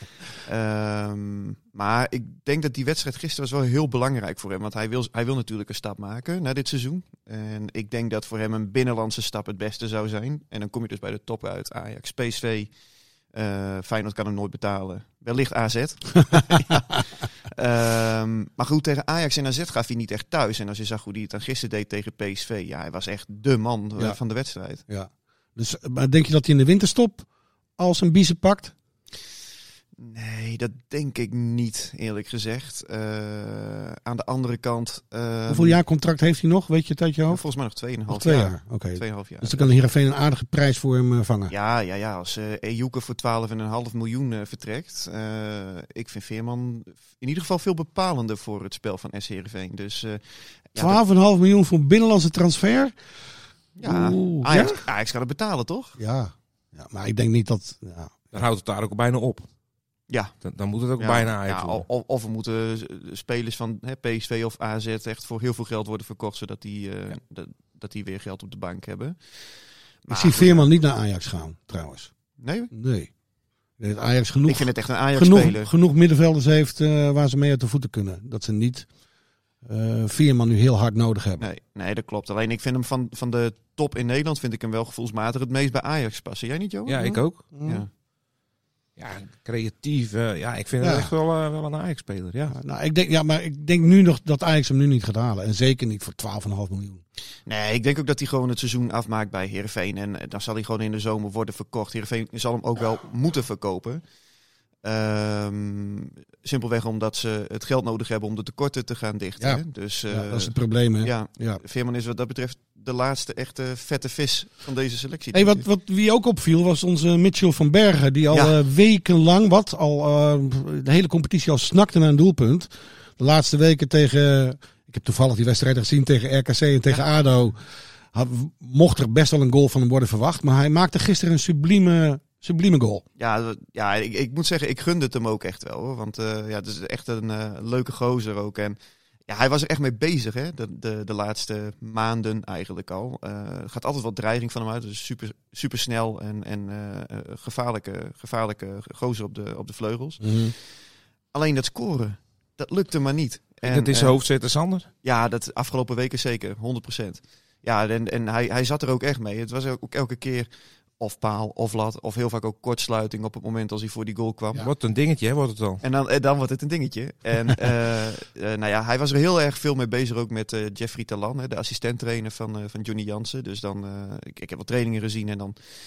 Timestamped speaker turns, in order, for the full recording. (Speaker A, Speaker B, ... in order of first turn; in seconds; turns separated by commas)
Speaker A: 0.4-12.7, Speaker A: 13.3-24.8, Speaker B: 24.9-27.3, Speaker B: 27.8-28.7, Speaker A: 30.0-35.8, Speaker B: 35.5-37.4, Speaker A: 37.3-39.7, Speaker B: 38.1-41.5, Speaker A: 41.5-50.2, Speaker A: 50.7-51.0, Speaker B: 50.8-52.9, Speaker A: 53.8-56.0, Speaker B: 53.8-54.8, Speaker B: 56.0-58.2, Speaker C: 58.3-59.5, Speaker A: 60.1-60.3, Speaker C: 60.4-61.8, Speaker A: 61.0-69.2, Speaker A: 70.0-70.7, Speaker B: 70.1-72.1, Speaker A: 72.4-72.7, Speaker B: 72.7-73.1, Speaker B: 73.8-78.9, Speaker A: 74.5-75.7, Speaker B: 79.6-81.5, Speaker A: 81.4-87.0, Speaker C: 86.9-87.4, Speaker B: 87.0-87.8, Speaker C: 89.0-92.5, Speaker B: 90.8-91.1, Speaker B: 92.5-97.0, Speaker A: 97.5-104.0, Speaker A: 104.8-115.6, Speaker B: 109.4-111.6, Speaker B: 115.3-127.6, Speaker A: 118.3-118.5, Speaker B: 128.1-133.0, Speaker A: 133.2-150.2, Speaker B: 150.2-150.5, Speaker A: 151.3-154.1, Speaker C: 153.6-154.9, Speaker A: 155.0-160.5, Speaker A: 161.0-164.7, Speaker C: 164.6-165.8, Speaker A: 165.8-175.6